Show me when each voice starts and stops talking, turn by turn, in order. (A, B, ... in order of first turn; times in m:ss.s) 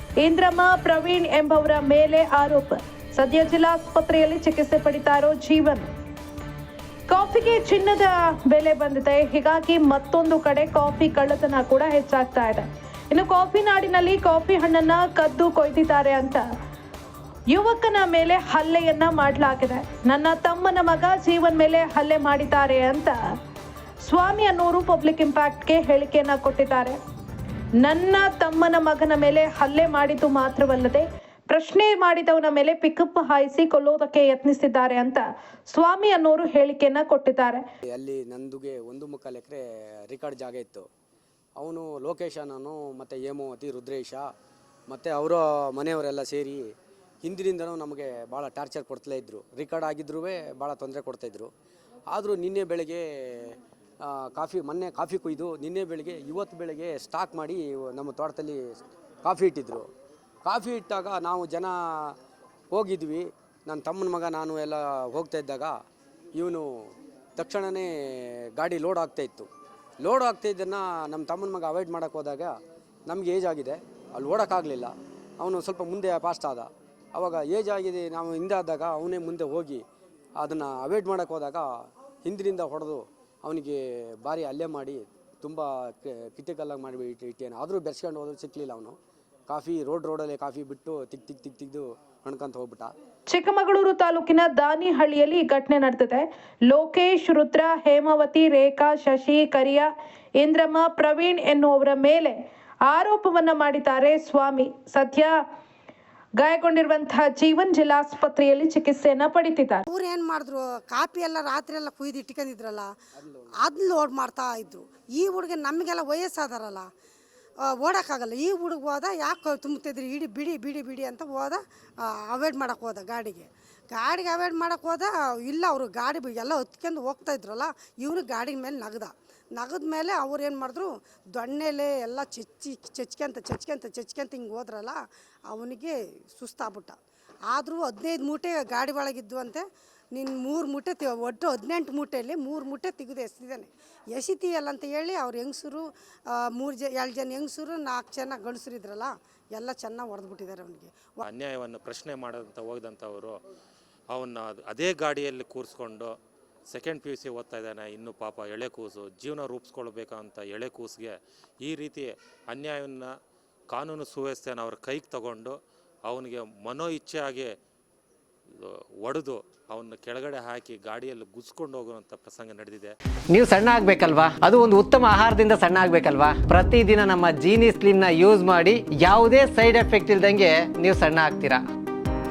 0:00.2-0:05.8 A
0:07.1-0:16.4 A
0:17.5-0:23.2 A
0:24.0-0:27.0 A
0:27.8-0:37.6 A
0:37.8-0:40.9 B
0:41.6-0:44.3 B
0:44.9-0:46.7 B
0:47.2-0:51.5 B
0:52.1-0:59.9 B
1:00.4-1:02.1 B
1:02.7-1:05.8 B
1:06.3-1:06.7 B
1:07.4-1:09.5 B
1:10.0-1:12.5 B
1:13.1-1:19.8 B
1:20.4-1:21.6 B
1:22.2-1:29.0 B
1:29.5-1:32.9 B
1:33.3-1:45.3 A
1:46.4-1:49.8 A
1:49.9-1:52.9 C
1:53.2-1:53.5 B
1:53.6-1:56.8 C
1:57.7-2:15.0 C
2:15.5-2:17.0 C
2:17.5-2:31.2 C
2:31.2-2:33.4 D
2:34.1-2:36.1 D
2:36.7-2:43.1 D
2:43.7-2:47.5 D
2:48.5-2:52.9 D
2:53.3-3:01.6 E